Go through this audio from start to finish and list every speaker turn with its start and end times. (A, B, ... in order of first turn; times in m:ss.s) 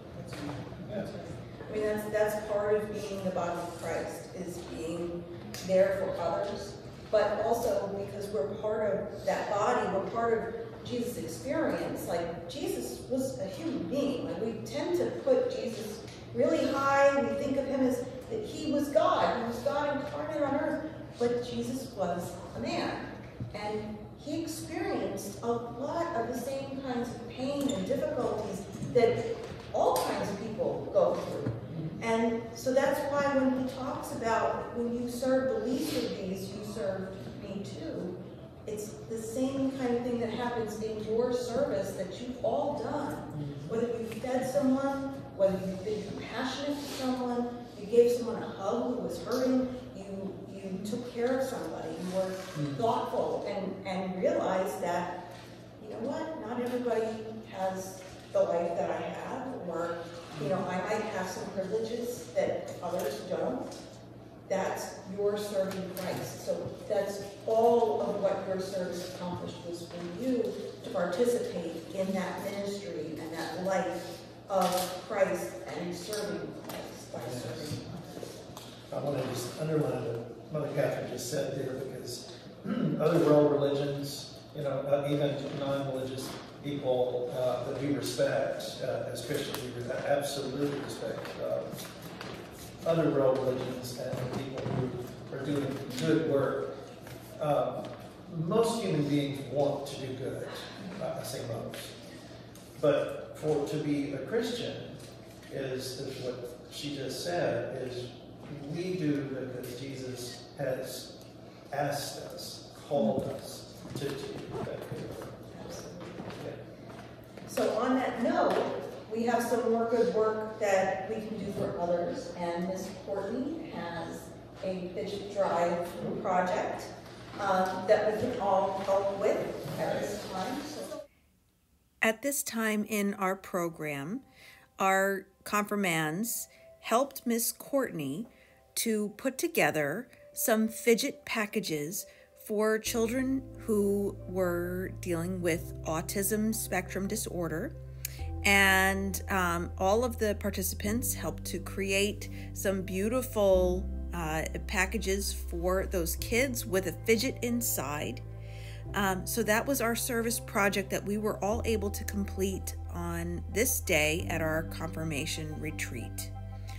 0:00.1-0:55.2 A
0:00.8-0:01.1 B
0:31.7-0:32.0 B
0:43.3-0:43.7 B
0:52.5-0:52.8 B
0:55.8-1:03.7 A
1:00.3-1:00.6 B
1:04.5-1:18.3 A
1:17.2-1:17.8 B
1:18.9-1:31.7 B
1:32.8-1:36.7 B
1:37.4-1:42.0 B
1:42.8-1:51.1 B
1:51.7-1:55.5 B
1:55.5-1:56.3 A
1:57.4-2:11.0 A
2:05.9-2:06.2 B
2:09.7-2:10.1 B
2:12.0-2:14.2 A
2:14.8-2:27.7 A
2:28.4-2:38.2 A
2:38.9-2:46.3 A